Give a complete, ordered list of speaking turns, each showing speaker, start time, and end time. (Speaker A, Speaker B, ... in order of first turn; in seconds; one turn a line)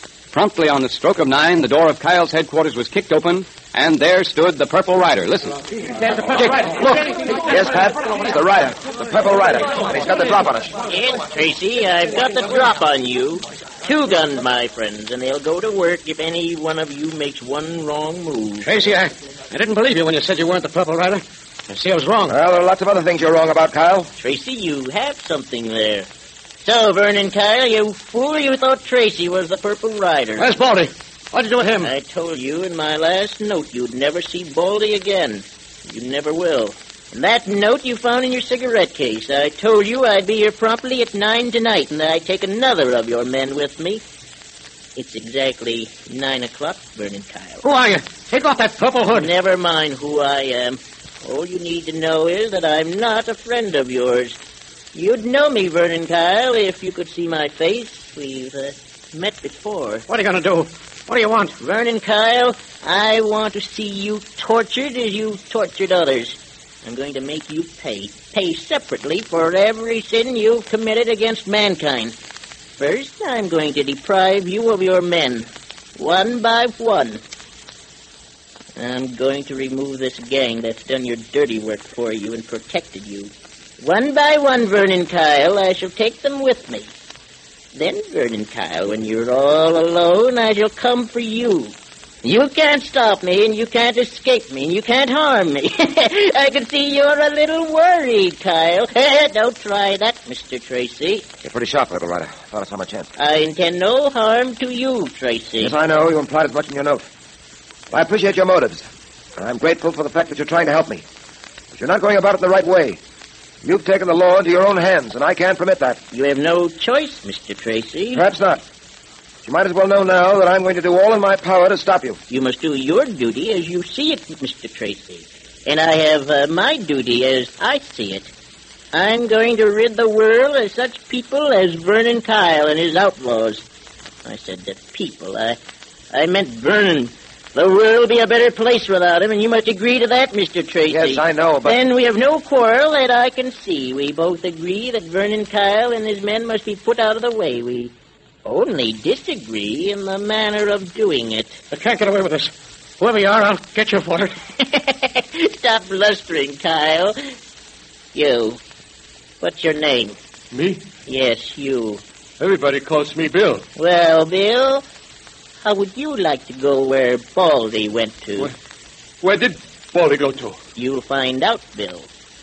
Speaker A: 0.3-5.6
Speaker B: 6.5-10.7
Speaker C: 10.9-18.8
Speaker D: 18.6-22.4
Speaker B: 22.3-24.1
Speaker C: 24.2-26.1
Speaker C: 26.6-30.5
Speaker D: 30.4-31.9
Speaker C: 31.8-44.0
Speaker C: 45.0-47.6
Speaker D: 47.6-49.3
Speaker C: 49.0-54.4
Speaker C: 54.9-60.0
Speaker D: 60.1-61.5
Speaker C: 61.6-72.1
Speaker C: 72.8-77.2
Speaker C: 78.8-86.9
Speaker C: 87.7-101.3
Speaker B: 101.4-103.1
Speaker C: 103.2-105.7
Speaker B: 105.6-107.0
Speaker B: 107.9-108.8
Speaker B: 109.4-111.0
Speaker B: 111.7-113.0
Speaker B: 113.6-116.0
Speaker C: 116.1-118.2
Speaker B: 118.1-118.6
Speaker B: 119.4-122.2
Speaker C: 122.3-128.3
Speaker C: 128.9-133.6
Speaker C: 134.2-135.6
Speaker C: 136.1-147.9
Speaker B: 140.9-141.8
Speaker C: 148.4-151.6
Speaker D: 151.7-154.3
Speaker C: 154.6-157.2
Speaker C: 158.1-158.6
Speaker C: 159.4-160.2
Speaker E: 160.5-160.8
Speaker C: 161.1-162.0
Speaker E: 162.4-163.6
Speaker C: 163.8-164.8
Speaker C: 165.6-168.5
Speaker E: 169.2-170.6
Speaker C: 170.8-172.1